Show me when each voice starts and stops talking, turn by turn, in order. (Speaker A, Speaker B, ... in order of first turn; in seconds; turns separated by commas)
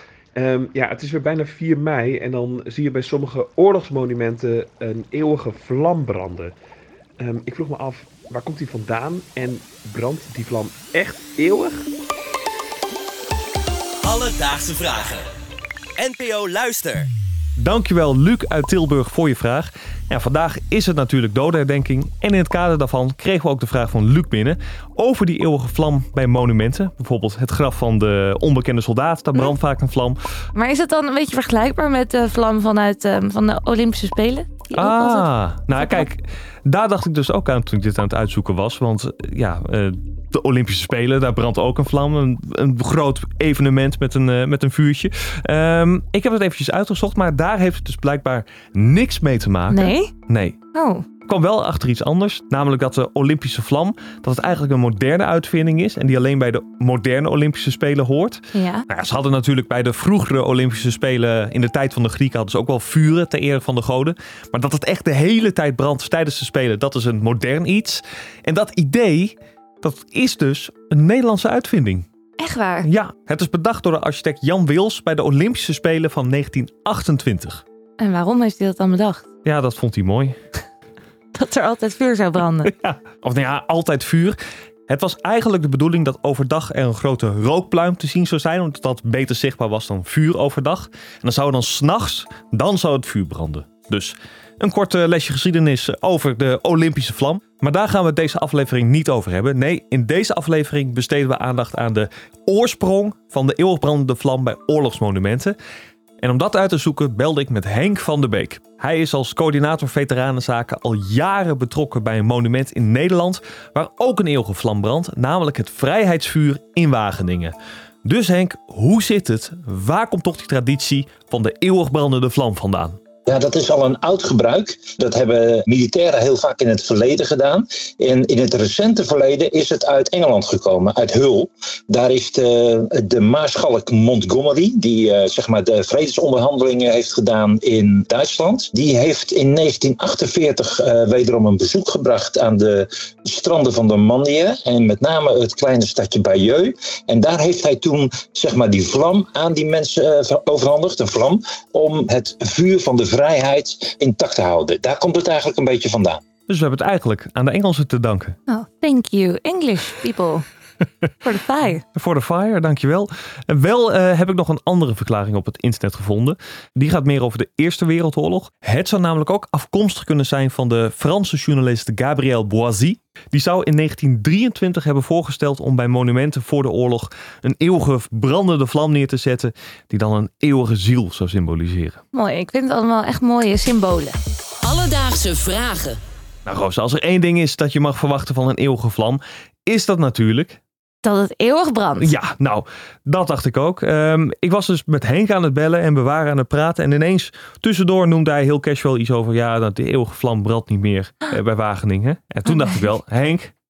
Speaker A: 0.3-6.5, Speaker A: 7.2-11.9, Speaker B: 14.0-15.3, Speaker B: 16.0-17.1, Speaker C: 17.6-30.2, Speaker D: 30.6-36.1, Speaker C: 34.8-50.6, Speaker D: 49.7-50.1, Speaker D: 50.7-51.1, Speaker C: 51.2-72.1, Speaker D: 58.5-58.9, Speaker D: 72.4-72.9, Speaker C: 72.8-77.6, Speaker D: 78.0-79.3, Speaker C: 79.4-80.4, Speaker D: 81.3-82.7, Speaker C: 82.6-105.6, Speaker C: 106.2-123.0, Speaker E: 123.3-156.2, Speaker C: 156.5-158.4, Speaker D: 158.5-160.4, Speaker D: 161.2-161.8, Speaker C: 161.8-182.0, Speaker D: 182.1-184.2, Speaker C: 186.5-190.6, Speaker D: 191.0-192.2, Speaker C: 192.0-203.5